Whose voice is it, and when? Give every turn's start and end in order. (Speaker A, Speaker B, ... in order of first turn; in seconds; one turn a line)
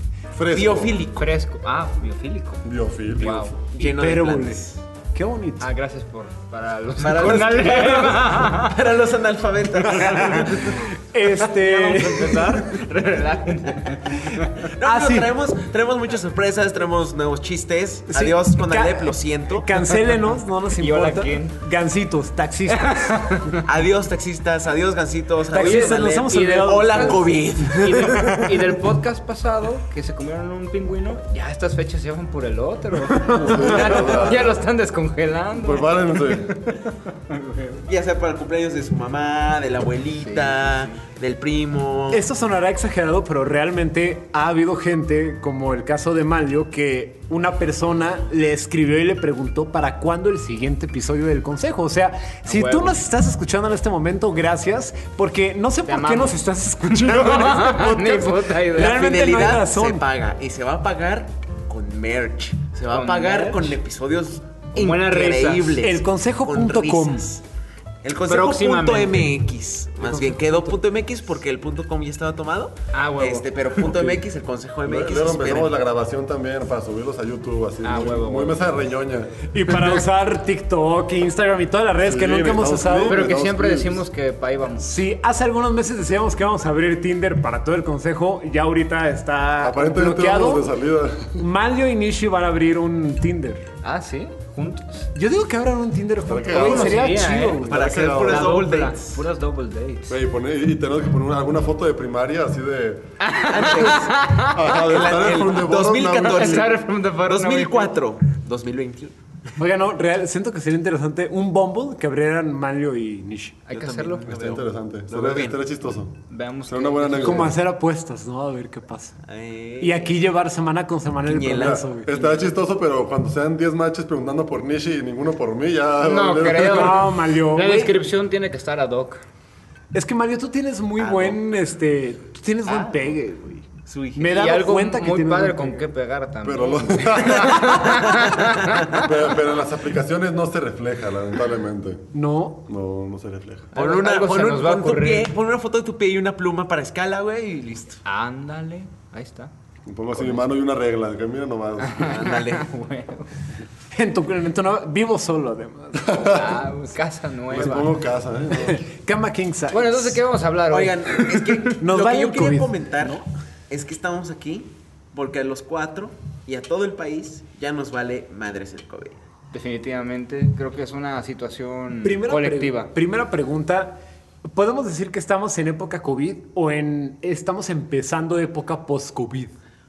Speaker A: 0.3-1.0
Speaker B: 0.5-1.3
Speaker C: 1.2-2.6
Speaker A: 2.6-3.5
Speaker C: 3.1-3.5
Speaker D: 3.7-5.7
Speaker B: 3.8-4.8
Speaker C: 5.6-8.8
Speaker B: 7.0-10.7
Speaker C: 9.9-14.4
Speaker D: 9.9-12.7
Speaker D: 14.2-15.3
Speaker B: 14.7-19.8
Speaker D: 18.1-23.2
Speaker C: 20.7-21.6
Speaker C: 22.7-23.6
Speaker B: 23.6-28.5
Speaker C: 25.5-37.8
Speaker D: 25.5-27.3
Speaker D: 28.1-28.4
Speaker A: 33.4-34.5
Speaker D: 33.4-33.8
Speaker A: 35.6-36.5
Speaker B: 37.9-42.2
Speaker C: 40.2-41.0
Speaker D: 42.1-60.0
Speaker C: 52.5-53.0
Speaker C: 55.9-59.0
Speaker B: 58.8-67.4
Speaker C: 62.9-63.8
Speaker C: 64.8-65.8
Speaker D: 65.8-67.3
Speaker B: 68.0-75.7
Speaker C: 68.3-69.3
Speaker D: 70.0-70.8
Speaker C: 72.9-73.5
Speaker A: 74.9-79.4
Speaker C: 77.8-78.7
Speaker D: 79.5-83.2
Speaker A: 82.1-84.0
Speaker C: 83.0-84.9
Speaker D: 84.8-90.7
Speaker A: 89.6-91.4
Speaker D: 91.4-93.7
Speaker C: 93.8-95.1
Speaker D: 95.1-97.7
Speaker A: 96.3-98.5
Speaker C: 96.5-100.2
Speaker B: 97.7-99.2
Speaker A: 100.1-103.1
Speaker C: 103.2-104.9
Speaker B: 103.4-109.1
Speaker A: 104.4-106.7
Speaker C: 106.2-108.0
Speaker D: 109.6-113.6
Speaker C: 113.7-114.3
Speaker B: 113.7-115.6
Speaker A: 114.2-116.2
Speaker C: 116.3-117.6
Speaker A: 116.7-117.5
Speaker D: 117.2-119.2
Speaker B: 119.3-120.2
Speaker D: 119.8-122.5
Speaker B: 121.3-121.8
Speaker A: 121.6-127.1
Speaker C: 126.0-129.2
Speaker D: 126.6-127.9
Speaker D: 129.9-135.9
Speaker B: 131.0-131.4
Speaker B: 133.9-134.4
Speaker C: 134.3-139.1
Speaker A: 136.4-142.1
Speaker B: 138.4-139.0
Speaker D: 142.1-142.6
Speaker A: 142.7-143.7
Speaker C: 143.7-145.3
Speaker B: 143.8-148.0
Speaker C: 148.1-149.5
Speaker A: 149.9-152.1
Speaker C: 150.2-150.5
Speaker C: 151.8-153.3
Speaker B: 152.0-152.7
Speaker D: 153.9-156.7
Speaker A: 156.0-156.5
Speaker C: 156.2-157.9
Speaker A: 157.5-158.8
Speaker D: 158.5-160.2
Speaker C: 159.7-161.6
Speaker B: 160.7-163.2
Speaker D: 161.7-163.2
Speaker B: 163.7-169.2
Speaker C: 169.5-172.9
Speaker D: 172.0-174.0
Speaker D: 174.5-179.5